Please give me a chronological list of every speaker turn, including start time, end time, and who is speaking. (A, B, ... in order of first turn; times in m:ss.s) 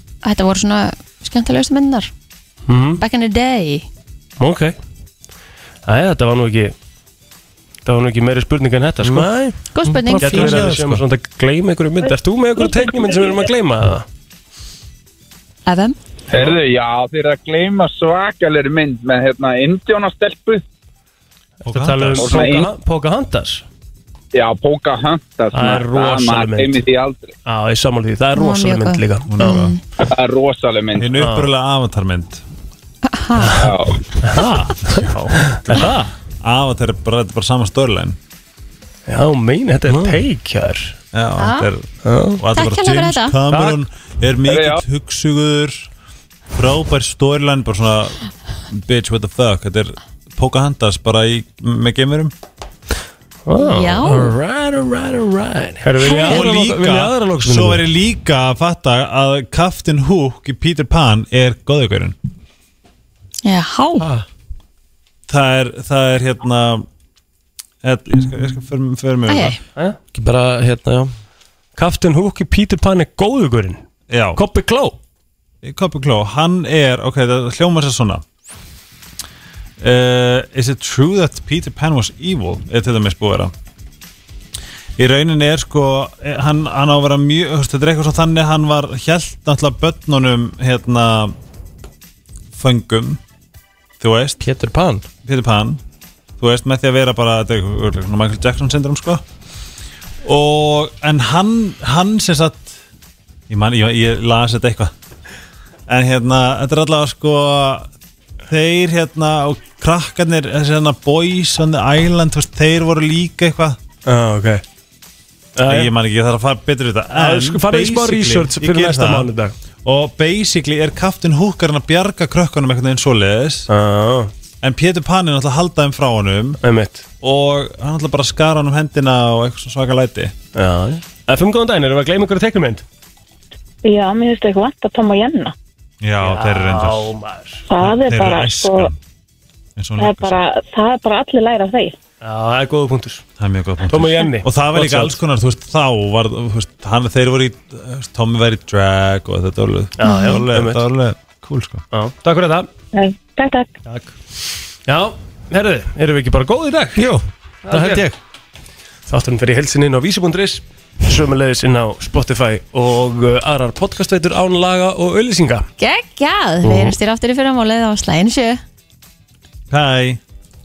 0:00.2-0:02.1 A
0:02.7-0:03.0 B
0:03.0-0:03.9 A
0:04.4-0:04.8 B
0:05.8-0:06.7 B
0:07.8-0:09.5 B
0:09.0-0:10.8 C
0:09.8-0:10.7 A
0:10.1-0:14.0 B
0:10.3-0:11.0 D
0:15.7-0:16.0 A
0:16.3-0:20.6 E
0:21.6-0:22.4 D
0:21.6-0:23.6 B
0:22.1-0:22.7 E
0:24.3-0:27.3 E
0:25.5-0:26.9 B
0:27.4-0:29.6 B
0:28.3-0:29.8 A
0:29.3-0:29.8 D
0:30.0-0:31.1 E
0:31.0-0:32.4 D
0:31.2-0:31.5 B
0:33.0-0:33.7 A
0:33.4-0:33.7 B
0:33.6-0:34.0 E
0:34.2-0:36.0 B
0:35.7-0:38.2 D
0:39.1-0:41.0 B
0:41.1-0:41.9 D
0:41.4-0:41.7 A
0:42.0-0:42.4 B
0:42.4-0:45.9 D
0:42.5-0:43.4 A
0:43.5-0:43.8 B
0:44.5-0:44.8 E
0:46.6-0:48.2 D
0:48.7-0:52.3 D
0:53.5-0:54.3 B
0:53.6-0:54.3 A
0:54.0-0:56.4 C
0:55.8-0:57.8 B
0:56.0-0:56.4 A
0:56.2-1:02.1 D
1:03.4-1:04.1 A
1:05.3-1:06.8 D
1:07.8-1:09.6 D
1:09.3-1:09.6 A
1:10.1-1:11.1 C
1:11.8-1:13.8 B
1:14.1-1:14.4 D
1:14.4-1:15.0 B
1:15.6-1:18.2 D
1:19.8-1:23.5 D
1:25.0-1:31.4 D
1:32.5-1:33.2 D
1:34.0-1:34.4 D
1:34.4-1:35.1 C
1:35.2-1:35.8 D
1:36.4-1:39.2 D
1:40.2-1:42.8 D
1:43.5-1:44.9 D
1:45.9-1:47.9 D
1:48.5-1:53.8 D
1:54.0-1:54.6 B
1:55.6-1:55.9 B
1:55.6-1:59.3 D
1:57.1-1:59.5 B
1:59.8-2:03.7 D
2:03.7-2:04.3 B
2:04.6-2:06.6 D
2:06.6-2:07.0 B
2:07.2-2:10.3 D
2:10.5-2:12.8 B
2:13.8-2:15.5 F
2:16.0-2:17.1 D
2:16.2-2:17.6 B
2:17.7-2:18.9 F
2:17.8-2:18.9 D
2:19.8-2:20.4 D
2:20.0-2:22.0 F
2:22.2-2:23.2 B
2:23.4-2:31.8 D
2:23.9-2:25.2 B
2:30.0-2:30.8 B
2:30.0-2:30.4 A
2:31.9-2:32.7 B
2:32.9-2:33.8 F
2:34.9-2:37.1 B
2:37.0-2:38.2 C
2:37.6-2:38.1 B
2:39.1-2:45.7 B
2:45.8-2:48.6 A
2:46.6-2:46.9 B
2:49.7-2:50.2 D